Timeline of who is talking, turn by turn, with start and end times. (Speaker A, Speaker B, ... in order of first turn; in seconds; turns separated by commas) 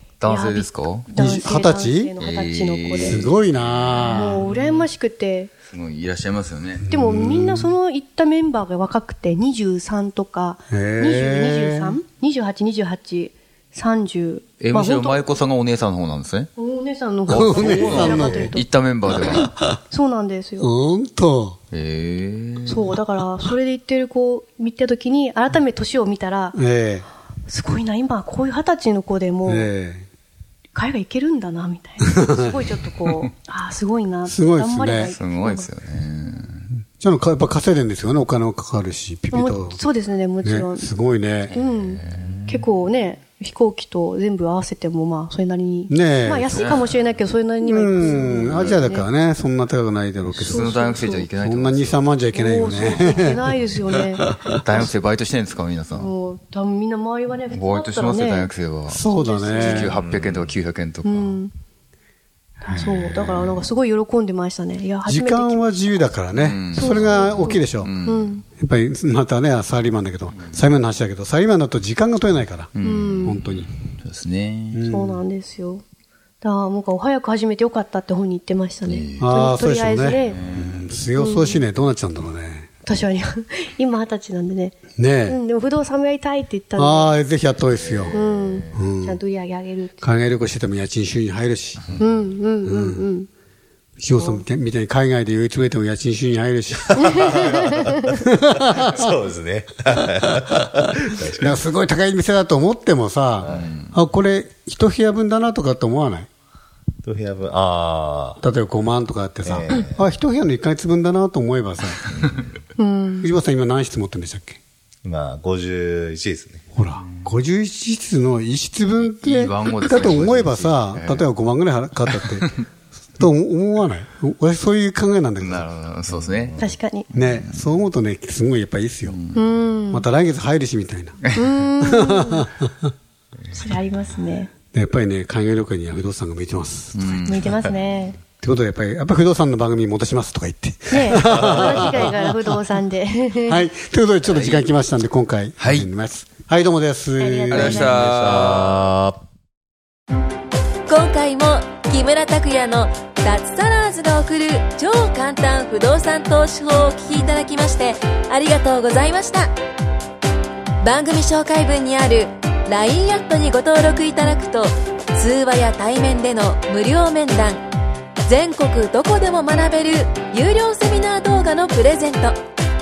Speaker A: 0.2-1.2, Speaker B: 0.2-3.3, Speaker C: 1.1-2.1, Speaker A: 2.2-4.9, Speaker C: 2.9-4.5, Speaker B: 4.0-5.5, Speaker A: 5.7-6.8, Speaker C: 6.8-7.7, Speaker B: 6.9-15.2, Speaker C: 10.7-12.0, Speaker A: 14.6-16.5, Speaker B: 16.6-18.6, Speaker C: 17.3-18.5, Speaker A: 17.3-19.5, Speaker B: 19.9-20.7, Speaker C: 20.6-21.6, Speaker A: 21.7-22.9, Speaker B: 22.6-26.6, Speaker C: 26.5-27.1, Speaker B: 27.5-29.7, Speaker C: 29.4-30.1, Speaker B: 30.7-35.7, Speaker C: 32.1-32.5, Speaker C: 34.2-35.1, Speaker A: 35.2-36.7, Speaker C: 36.9-39.8, Speaker B: 39.3-40.9, Speaker C: 40.4-41.5, Speaker A: 41.5-42.6, Speaker B: 41.5-49.1, Speaker C: 45.9-46.8, Speaker A: 46.5-47.0, Speaker C: 47.6-53.4, Speaker B: 50.3-51.3, Speaker A: 50.4-52.0, Speaker B: 52.3-54.2, Speaker A: 54.5-56.1, Speaker B: 55.9-58.5, Speaker A: 57.5-61.4, Speaker C: 58.9-60.0, Speaker B: 59.1-59.9, Speaker D: 59.9-60.5, Speaker B: 61.0-61.5, Speaker B: 62.6-66.1, Speaker A: 62.6-63.6, Speaker C: 65.0-67.9, Speaker A: 66.3-68.3, Speaker B: 66.7-68.4, Speaker C: 68.5-73.7, Speaker A: 72.7-74.8, Speaker B: 72.8-73.4, Speaker C: 74.7-75.2, Speaker B: 74.8-75.8, Speaker B: 76.4-80.4, Speaker A: 78.8-79.4, Speaker C: 79.2-82.7, Speaker A: 80.2-81.0, Speaker B: 81.2-81.6, Speaker B: 82.8-87.1, Speaker C: 85.0-85.4, Speaker C: 86.8-89.2, Speaker A: 87.7-88.8, Speaker B: 88.1-90.1, Speaker C: 90.0-92.0, Speaker B: 92.0-93.3, Speaker C: 92.6-93.0, Speaker C: 94.0-99.1, Speaker B: 94.1-94.4, Speaker B: 97.0-97.9, Speaker D: 97.2-97.7, Speaker D: 98.7-101.5, Speaker C: 101.3-106.3, Speaker D: 103.4-103.8, Speaker A: 103.5-103.9, Speaker D: 107.0-108.4, Speaker C: 108.4-112.2, Speaker D: 109.4-110.0, Speaker D: 112.2-112.6, Speaker B: 112.8-113.3, Speaker C: 113.2-114.6, Speaker D: 115.0-116.6, Speaker C: 116.7-122.5, Speaker A: 119.2-121.3, Speaker C: 123.2-125.7, Speaker A: 125.4-127.6, Speaker D: 126.2-126.7, Speaker B: 126.6-127.1, Speaker C: 127.1-129.2, Speaker A: 129.1-129.4, Speaker B: 129.3-130.1, Speaker C: 129.9-131.3, Speaker B: 131.3-132.5, Speaker C: 131.8-132.7, Speaker B: 133.5-134.5, Speaker C: 134.7-137.6, Speaker A: 136.9-137.7, Speaker B: 137.3-138.2, Speaker C: 138.3-142.4, Speaker B: 140.9-143.7, Speaker D: 141.3-141.8, Speaker C: 143.4-147.9, Speaker A: 144.2-144.7, Speaker A: 145.6-145.9, Speaker B: 147.2-148.6, Speaker A: 147.5-148.9, Speaker D: 147.9-149.2, Speaker E: 150.9-159.5, Speaker E: 160.8-167.7, Speaker E: 168.2-172.4